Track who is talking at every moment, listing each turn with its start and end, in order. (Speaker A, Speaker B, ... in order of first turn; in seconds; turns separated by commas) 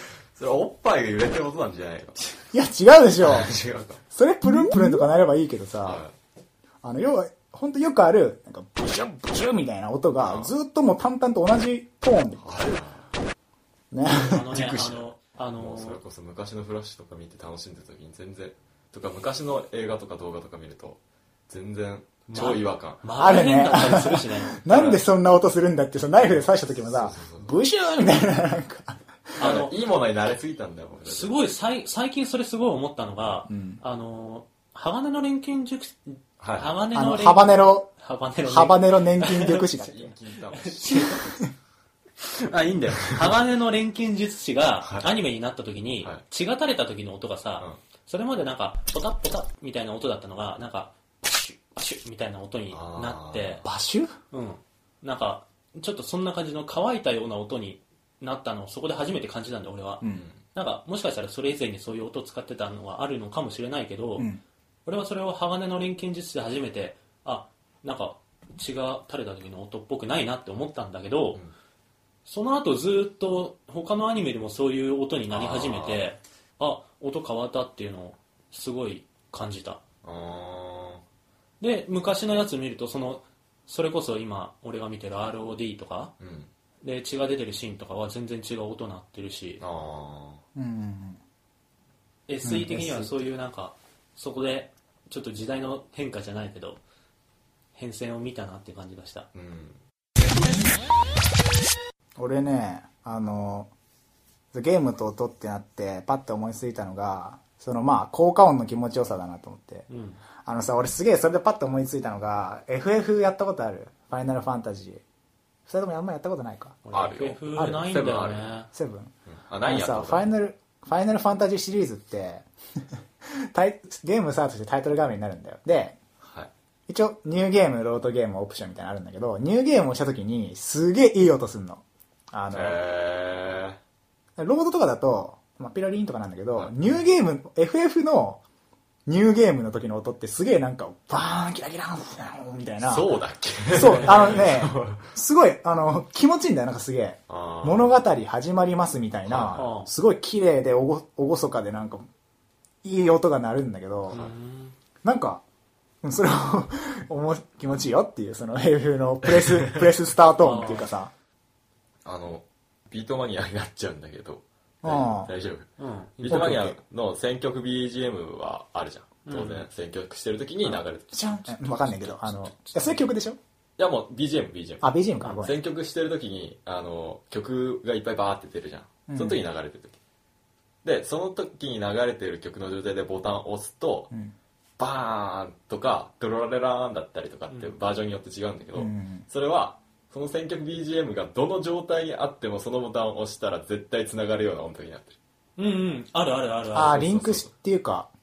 Speaker A: 0.3-2.5, Speaker B: 2.5-3.5, Speaker A: 3.2-4.0, Speaker B: 4.1-6.0, Speaker A: 5.8-6.1, Speaker B: 6.8-12.5, Speaker A: 10.2-10.5, Speaker A: 12.4-13.1, Speaker B: 13.9-14.7, Speaker C: 14.2-16.0, Speaker A: 14.5-23.0, Speaker C: 22.3-24.6, Speaker B: 23.2-29.4, Speaker A: 24.7-25.0, Speaker A: 26.8-27.5, Speaker C: 29.4-29.7, Speaker A: 29.4-31.3, Speaker C: 31.1-39.7, Speaker B: 33.5-33.8, Speaker A: 36.4-36.8, Speaker B: 36.9-37.9, Speaker B: 38.4-40.1, Speaker A: 39.6-41.4, Speaker C: 40.5-41.3, Speaker C: 42.2-53.6, Speaker A: 43.0-43.3, Speaker A: 44.8-45.1, Speaker A: 52.7-53.6, Speaker B: 53.6-54.1, Speaker C: 54.3-60.0, Speaker B: 60.0-60.3, Speaker A: 60.1-60.4, Speaker C: 60.5-64.3, Speaker C: 64.8-71.4, Speaker C: 72.2-79.8, Speaker A: 75.3-76.1, Speaker A: 80.0-81.0, Speaker C: 81.6-86.1, Speaker A: 86.2-86.5, Speaker C: 86.8-89.6, Speaker A: 89.6-90.4, Speaker B: 90.5-91.2, Speaker C: 92.3-96.8, Speaker B: 92.4-93.1, Speaker C: 97.7-99.3, Speaker A: 99.3-99.8, Speaker B: 102.2-103.7, Speaker B: 104.5-109.9, Speaker C: 109.9-110.2, Speaker B: 110.4-115.0, Speaker B: 115.7-116.8, Speaker C: 116.8-118.7, Speaker A: 116.9-118.5, Speaker B: 117.6-117.8, Speaker B: 118.7-119.1, Speaker A: 119.3-120.3, Speaker B: 119.6-122.5, Speaker B: 123.4-126.0, Speaker A: 126.2-126.5, Speaker B: 126.9-132.8, Speaker A: 132.5-133.8, Speaker B: 134.4-138.4, Speaker A: 136.5-136.9, Speaker B: 139.1-143.1, Speaker A: 142.8-145.1, Speaker B: 143.7-152.1, Speaker C: 143.7-144.4, Speaker A: 147.3-148.0, Speaker A: 149.2-149.7, Speaker C: 149.5-149.9, Speaker B: 152.8-154.2, Speaker C: 154.1-154.7, Speaker B: 155.0-155.4, Speaker B: 156.0-161.1, Speaker A: 159.4-159.8, Speaker C: 160.4-160.9, Speaker A: 162.0-165.7, Speaker B: 164.8-165.3, Speaker C: 165.8-166.6, Speaker A: 166.2-171.3, Speaker B: 166.3-166.8, Speaker C: 169.2-169.7, Speaker B: 170.7-173.4, Speaker C: 171.6-173.1, Speaker A: 173.8-180.0, Speaker B: 174.8-175.6, Speaker B: 179.1-179.4, Speaker A: 180.8-184.1, Speaker A: 184.8-195.2, Speaker B: 188.7-189.2, Speaker C: 195.6-197.4, Speaker B: 196.7-198.1